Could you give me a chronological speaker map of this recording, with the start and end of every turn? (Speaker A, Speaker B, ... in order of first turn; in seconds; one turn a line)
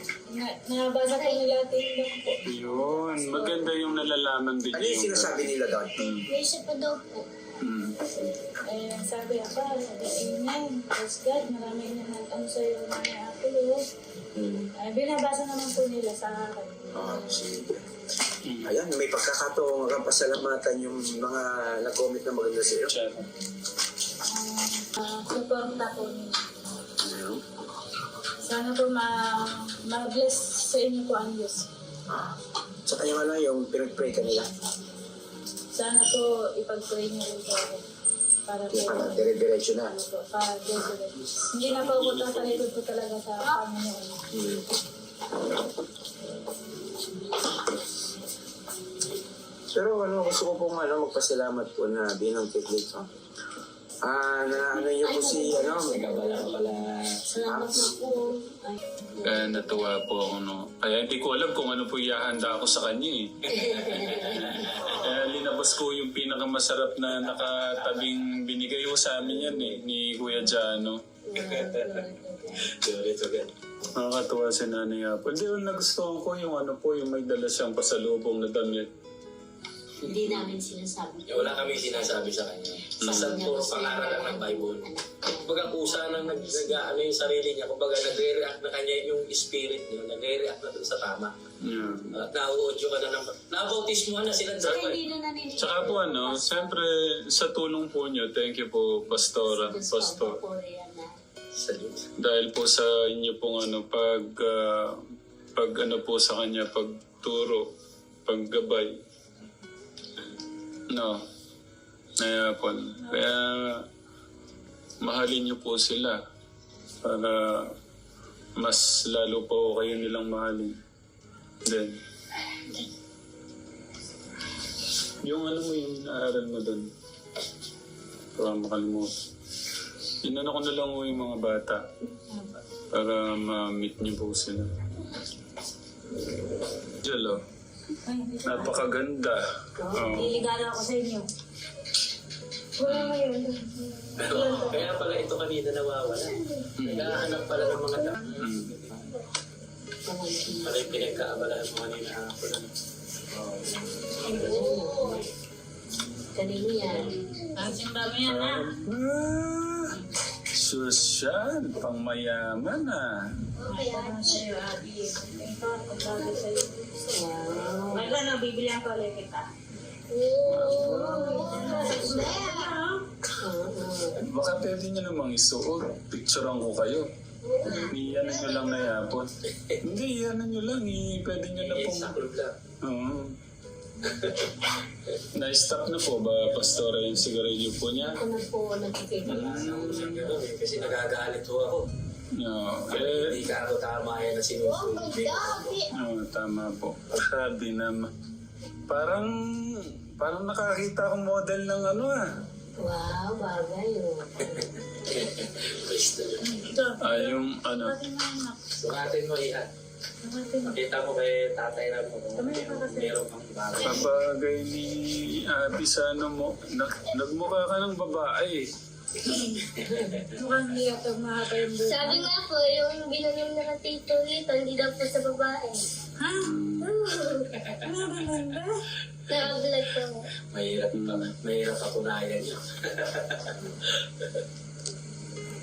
Speaker A: 0.3-3.6
Speaker B: 1.1-1.5
Speaker C: 2.5-5.5
Speaker D: 4.7-6.0
Speaker C: 6.0-6.3
Speaker B: 6.3-7.3
Speaker C: 7.6-8.0
Speaker A: 8.7-13.8
Speaker D: 14.4-14.7
Speaker A: 14.8-16.7
Speaker D: 16.9-17.9
Speaker C: 18.5-18.7
Speaker D: 18.6-22.9
Speaker C: 22.9-23.3
Speaker A: 24.3-26.4
Speaker D: 27.0-27.4
Speaker A: 28.4-31.7
Speaker D: 32.9-34.5
Speaker A: 35.8-37.8
Speaker A: 38.5-39.3
Speaker D: 38.7-39.9
Speaker A: 39.8-44.2
Speaker C: 41.7-42.6
Speaker D: 44.3-44.6
Speaker D: 49.7-53.1
Speaker D: 54.0-56.0
Speaker E: 55.0-56.7
Speaker F: 55.9-57.9
Speaker E: 57.3-59.7
Speaker D: 57.4-57.9
Speaker C: 59.2-63.2
Speaker F: 63.5-65.0
Speaker E: 63.7-64.2
Speaker C: 65.0-71.0
Speaker F: 67.1-68.0
Speaker F: 69.5-69.8
Speaker E: 71.3-72.6
Speaker F: 71.3-73.5
Speaker C: 74.0-78.9
Speaker E: 80.1-82.1
Speaker F: 80.1-80.7
Speaker F: 81.2-91.3
Speaker C: 83.0-83.4
Speaker E: 83.1-86.9
Speaker C: 91.6-92.2
Speaker F: 92.1-95.1
Speaker C: 94.6-94.9
Speaker E: 94.7-96.8
Speaker C: 95.6-100.4
Speaker E: 99.2-101.2
Speaker F: 101.5-102.0
Speaker C: 102.2-105.0
Speaker C: 105.6-107.6
Speaker C: 108.3-108.9
Speaker C: 110.9-111.2
Speaker C: 112.2-113.8
Speaker C: 115.0-116.2
Speaker C: 117.0-117.6
Speaker C: 118.6-120.7
Speaker C: 121.7-121.9
Speaker C: 125.2-126.9
Speaker C: 128.4-129.1
Speaker C: 130.2-131.8
Speaker A: 132.3-132.6
Speaker C: 132.9-134.7
Speaker C: 137.0-137.4
Speaker A: 138.1-138.9
Speaker C: 138.4-139.4
Speaker E: 139.8-140.3
Speaker C: 139.9-140.4
Speaker A: 140.1-141.3
Speaker A: 142.8-144.9
Speaker F: 144.2-149.1
Speaker C: 146.8-147.1
Speaker C: 148.4-148.7
Speaker E: 150.1-151.2
Speaker F: 150.6-152.7
Speaker F: 153.4-155.2
Speaker B: 154.3-155.2
Speaker E: 154.4-155.1
Speaker E: 156.3-157.1
Speaker F: 156.4-157.2
Speaker A: 157.6-158.7
Speaker C: 158.3-160.0
Speaker C: 160.5-163.4
Speaker A: 163.7-167.2
Speaker B: 163.7-164.4
Speaker E: 167.1-168.2
Speaker A: 167.9-169.5
Speaker B: 170.1-172.7
Speaker C: 170.5-171.8
Speaker A: 171.3-173.0
Speaker E: 173.4-174.2
Speaker C: 174.2-177.1
Speaker E: 177.6-177.9
Speaker B: 177.7-178.5
Speaker C: 177.9-179.3
Speaker F: 179.5-179.8
Speaker C: 179.8-182.2
Speaker F: 181.5-182.6
Speaker C: 182.8-183.3
Speaker C: 185.3-188.2
Speaker E: 188.0-189.4
Speaker F: 189.2-191.9
Speaker C: 189.3-190.3
Speaker C: 192.4-193.4
Speaker F: 192.9-195.8
Speaker B: 194.7-195.8
Speaker C: 195.9-198.1
Speaker C: 198.9-202.2
Speaker E: 202.8-204.3
Speaker F: 204.6-206.4
Speaker A: 206.4-208.6
Speaker C: 207.0-207.9
Speaker F: 208.8-209.7
Speaker A: 210.2-210.8
Speaker F: 210.7-214.2
Speaker A: 212.4-213.2
Speaker C: 213.8-218.6
Speaker F: 219.9-220.2
Speaker A: 220.1-222.3
Speaker B: 221.8-225.8
Speaker A: 226.2-226.5
Speaker C: 226.4-226.9
Speaker B: 226.9-227.5
Speaker F: 227.6-227.9
Speaker A: 227.8-228.8
Speaker F: 229.3-229.7
Speaker B: 229.3-230.3
Speaker F: 230.5-233.7
Speaker C: 230.9-231.3